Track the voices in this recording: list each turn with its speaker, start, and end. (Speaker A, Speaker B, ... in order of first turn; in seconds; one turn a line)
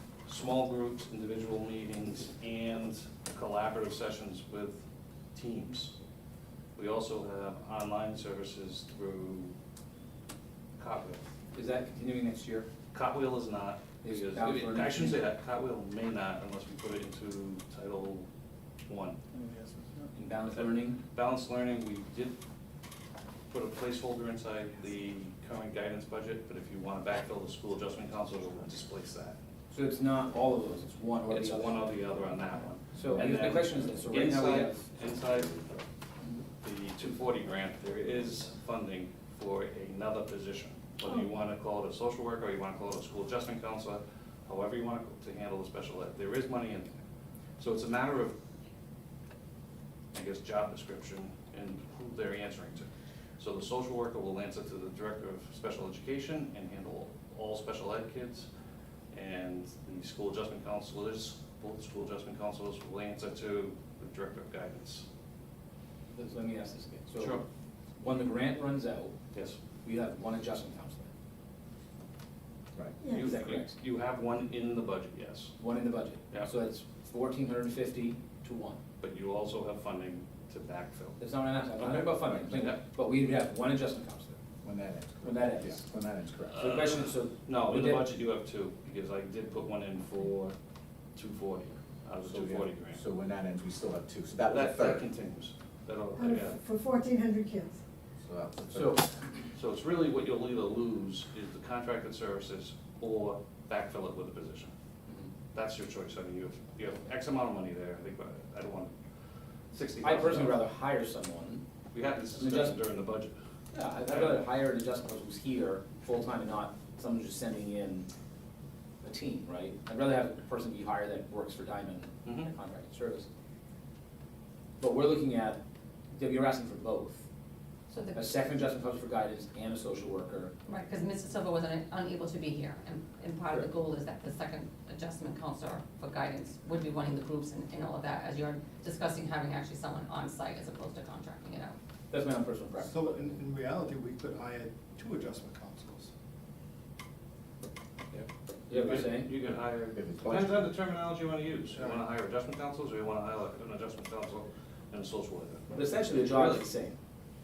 Speaker A: 0.3-6.0
Speaker A: 6.8-9.6
Speaker A: 10.8-11.3
Speaker B: 11.5-12.7
Speaker A: 12.9-18.3
Speaker B: 14.0-15.3
Speaker A: 18.9-19.2
Speaker B: 20.1-21.0
Speaker A: 20.5-22.4
Speaker A: 23.5-29.4
Speaker B: 29.7-31.9
Speaker A: 31.3-35.8
Speaker B: 32.9-34.8
Speaker A: 36.6-46.9
Speaker A: 47.6-48.4
Speaker A: 50.1-58.5
Speaker A: 59.1-65.1
Speaker B: 66.1-67.4
Speaker A: 67.2-67.4
Speaker B: 68.0-69.2
Speaker A: 69.3-69.6
Speaker B: 69.8-71.1
Speaker C: 73.0-73.3
Speaker A: 73.1-75.6
Speaker B: 73.2-73.8
Speaker B: 75.6-78.8
Speaker A: 79.0-82.8
Speaker B: 81.2-84.4
Speaker D: 84.6-86.7
Speaker B: 85.2-85.9
Speaker B: 86.6-88.1
Speaker A: 86.7-90.6
Speaker A: 91.2-93.0
Speaker D: 92.2-95.1
Speaker A: 94.5-96.6
Speaker C: 96.2-97.8
Speaker D: 98.2-99.0
Speaker B: 98.7-99.1
Speaker A: 99.5-104.7
Speaker A: 105.5-108.9
Speaker A: 109.7-110.7
Speaker B: 110.0-111.6
Speaker A: 111.9-113.4
Speaker B: 112.3-112.8
Speaker B: 113.7-118.1
Speaker A: 114.0-114.4
Speaker B: 119.0-123.3
Speaker A: 122.2-122.5
Speaker B: 124.8-125.6
Speaker B: 126.1-127.2
Speaker E: 127.9-128.3
Speaker B: 128.2-130.5
Speaker E: 130.7-141.8
Speaker B: 142.1-143.4
Speaker F: 142.8-146.1
Speaker B: 148.7-149.3
Speaker A: 148.7-156.7
Speaker D: 149.9-150.7
Speaker F: 151.7-152.0
Speaker B: 155.7-156.9